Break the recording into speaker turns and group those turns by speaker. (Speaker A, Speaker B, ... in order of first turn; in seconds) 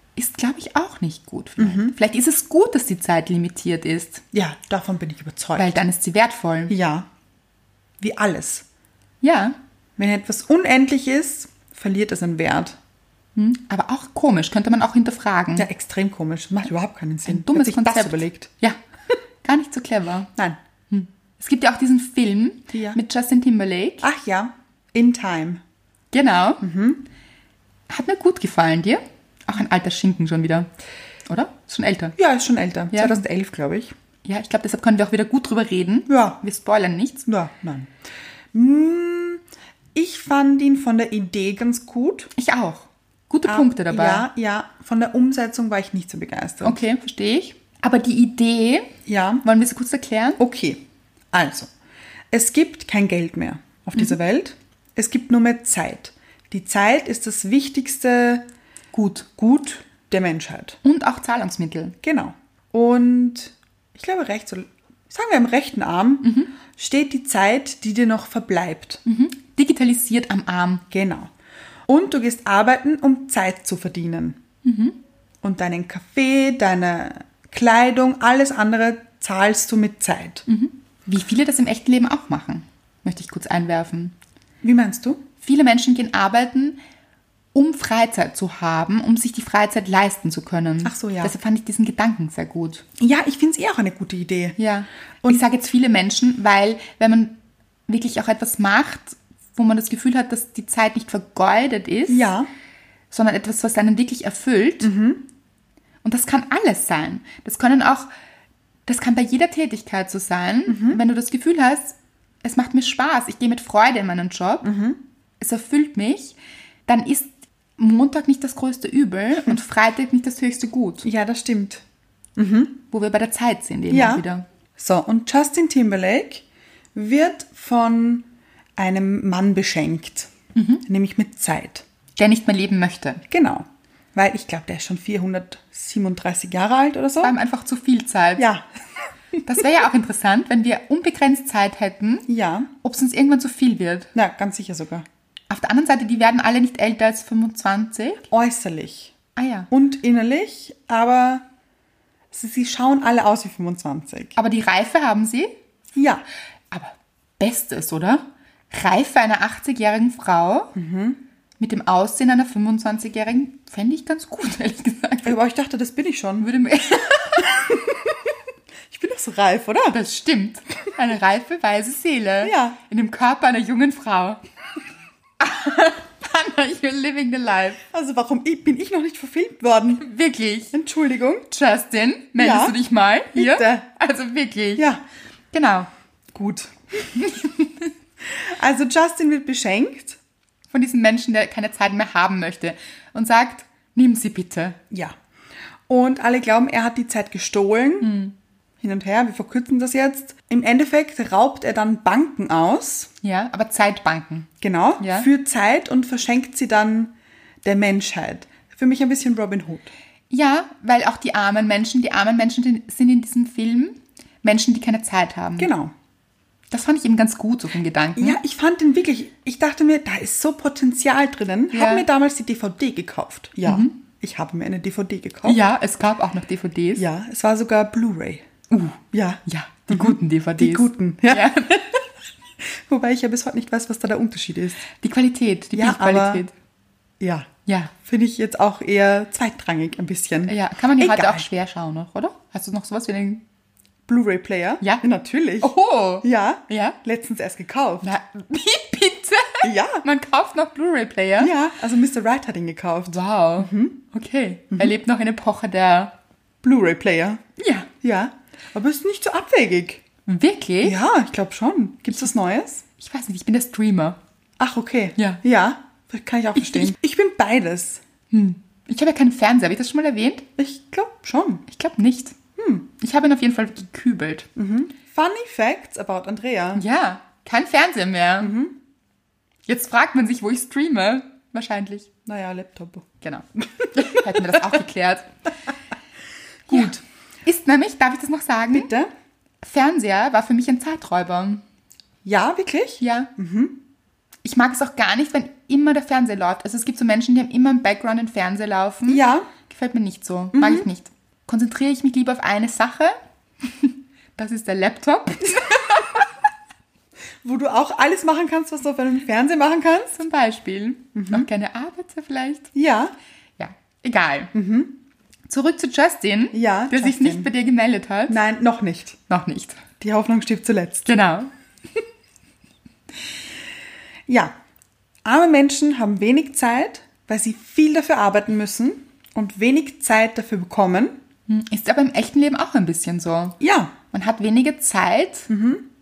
Speaker A: 0.1-4.2, 5.5-6.7, 9.2-9.6, 13.3-15.7, 17.2-18.8, 19.4-20.3, 20.9-24.1, 26.1-26.6, 27.9-30.7, 31.3-32.1, 32.9-33.2, 34.2-37.2, 42.4-44.3, 46.6-50.4, 58.9-59.3, 60.8-62.0, 66.2-66.5, 69.0-70.8, 74.6-75.0, 80.5-84.1, 85.4-86.8, 87.5-92.8, 94.6-97.3, 97.9-102.3, 103.1-104.9, 106.0-108.1, 108.9-114.7, 115.4-121.1, 122.9-124.4, 130.5-130.8, 132.2-133.2, 137.2-138.5, 139.4-142.3, 142.8-144.1, 145.5-148.2, 149.3-149.7, 154.3-155.5, 156.7-160.7, 161.6-165.4, 166.4-168.0, 169.9-174.4, 175.4-177.8, 180.0-180.7, 181.5-184.8, 185.5-185.9, 187.1-187.9, 190.7-194.8, 198.0-198.3, 203.2-205.3, 210.3-215.7, 216.7-218.4, 221.7-222.1, 223.6-224.0, 225.4-227.0, 228.7-232.0, 234.9-236.5, 237.7-237.9, 240.5-243.4, 245.6-247.0, 248.0-251.5, 253.1-256.1, 257.6-257.9, 260.2-261.0, 263.0-264.2, 266.6-266.9, 268.3-270.5, 271.7-272.4, 273.0-274.5, 276.8-278.5, 279.7-282.1, 283.2-285.3, 286.7-288.9, 289.6-291.6, 293.0-293.3, 294.4-306.2, 310.1-312.7, 313.6-314.5, 315.5-318.4, 319.3-319.8, 321.1-321.5, 331.5-333.6, 334.1-335.5
Speaker B: 1.6-1.9, 4.3-5.8, 6.7-7.1, 8.0-8.6, 10.0-12.8, 15.6-18.5, 22.7-23.0, 24.0-25.6, 26.6-27.0, 32.2-33.9, 36.1-36.4, 37.3-37.9, 38.5-39.4, 39.9-42.3, 43.5-46.8, 49.0-49.4, 50.4-51.7, 52.3-58.4, 59.4-60.8, 62.0-69.0, 70.9-71.3, 71.9-74.4, 75.4-80.4, 84.6-85.2, 90.8-91.3, 93.0-94.6, 102.1-102.5, 104.8-105.2, 110.7-111.0, 114.6-115.0, 121.0-121.8, 122.3-122.8, 123.9-124.2, 124.8-130.3, 130.8-131.8, 133.3-137.3, 138.4-138.6, 142.3-142.7, 144.1-145.1, 148.3-149.1, 149.7-151.4, 152.3-154.3, 155.9-156.2, 160.7-161.2, 165.2-166.5, 168.9-170.0, 172.4-172.8, 177.9-180.0, 180.7-181.5, 182.4-182.8, 183.3-183.8, 184.8-185.0, 186.3-187.1, 188.2-190.2, 194.9-195.2, 195.9-198.1, 198.8-203.1, 204.6-207.1, 207.6-209.9, 215.6-215.9, 218.2-225.6, 227.0-228.4, 229.1-231.5, 232.6-234.8, 235.7-236.4, 237.2-241.4, 244.1-248.1, 249.6-250.0, 251.4-254.0, 256.6-257.4, 258.0-260.0, 260.8-262.8, 264.6-268.0, 270.6-271.6, 272.6-272.9, 274.6-276.8, 278.4-278.8, 282.2-283.1, 286.7-287.0, 288.7-289.1, 292.2-293.8, 299.1-299.5, 300.5-300.9, 307.4-310.2, 311.1-311.5, 312.7-313.1, 314.5-314.9, 316.5-317.5, 318.3-319.2, 320.0-321.1, 324.3-324.5, 325.2-331.1, 333.6-333.9, 335.5-335.9